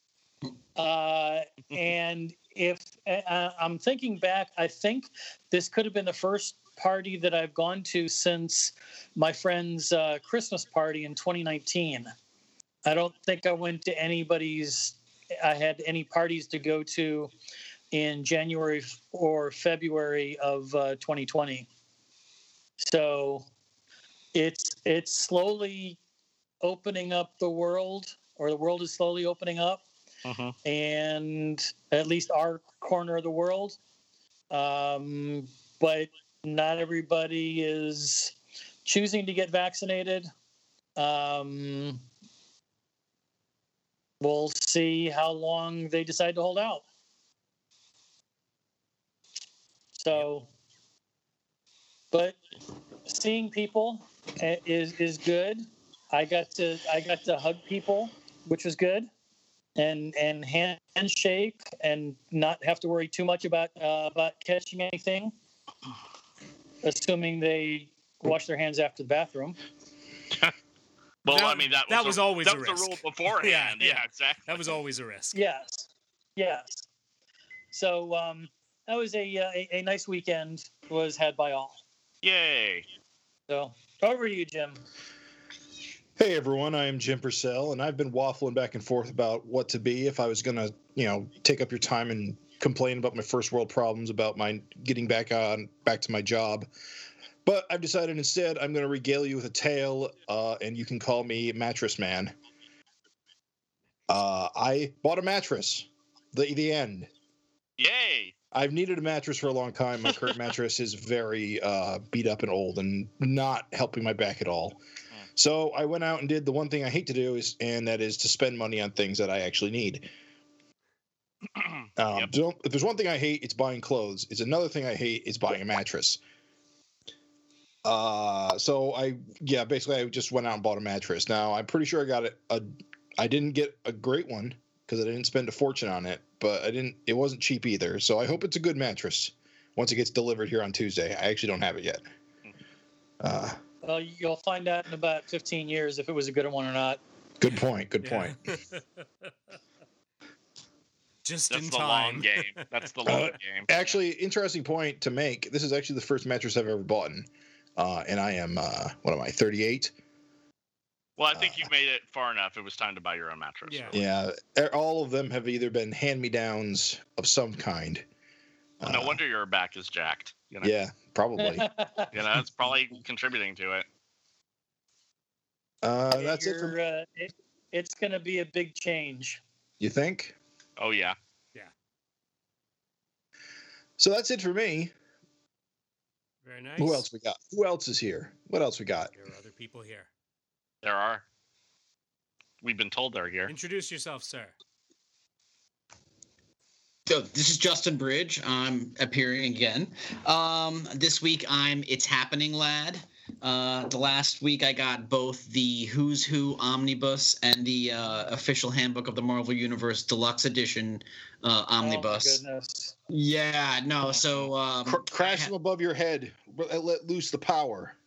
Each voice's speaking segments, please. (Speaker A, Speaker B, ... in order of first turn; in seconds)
Speaker A: 0.8-12.1, 12.8-17.3, 17.9-21.7, 22.8-23.5, 24.3-26.0, 26.6-29.9, 30.6-33.8, 34.5-40.3, 41.0-42.0, 44.2-46.8, 50.0-50.5, 52.1-52.4, 53.0-59.1, 59.8-65.3, 66.8-69.6, 75.3-76.7, 77.7-81.8, 83.5-84.8, 143.8-147.0, 171.4-172.1, 176.1-179.4, 211.8-212.9
Speaker B: 30.2-30.5, 71.2-74.6, 82.2-82.8, 107.8-108.3, 121.5-122.3, 151.5-153.8, 161.2-164.0, 168.8-170.7, 172.1-173.8, 180.8-181.2, 190.8-191.2, 192.6-193.5, 214.1-214.5
Speaker C: 71.3-75.4, 148.0-148.8, 151.2-152.7, 163.7-164.0, 186.4-187.1, 189.1-190.1, 193.5-194.5
Speaker D: 86.2-96.7, 97.4-102.3, 104.1-107.1, 108.5-114.8, 115.3-120.0, 122.0-126.2, 127.8-142.0, 143.2-143.6, 147.4-148.3, 153.1-159.9, 161.3-161.7, 163.9-168.0, 168.8-169.2, 170.6-171.7, 175.8-176.8, 179.8-180.3, 184.0-184.9, 186.8-189.1, 214.8-217.9
Speaker E: 197.1-212.4, 213.1-215.5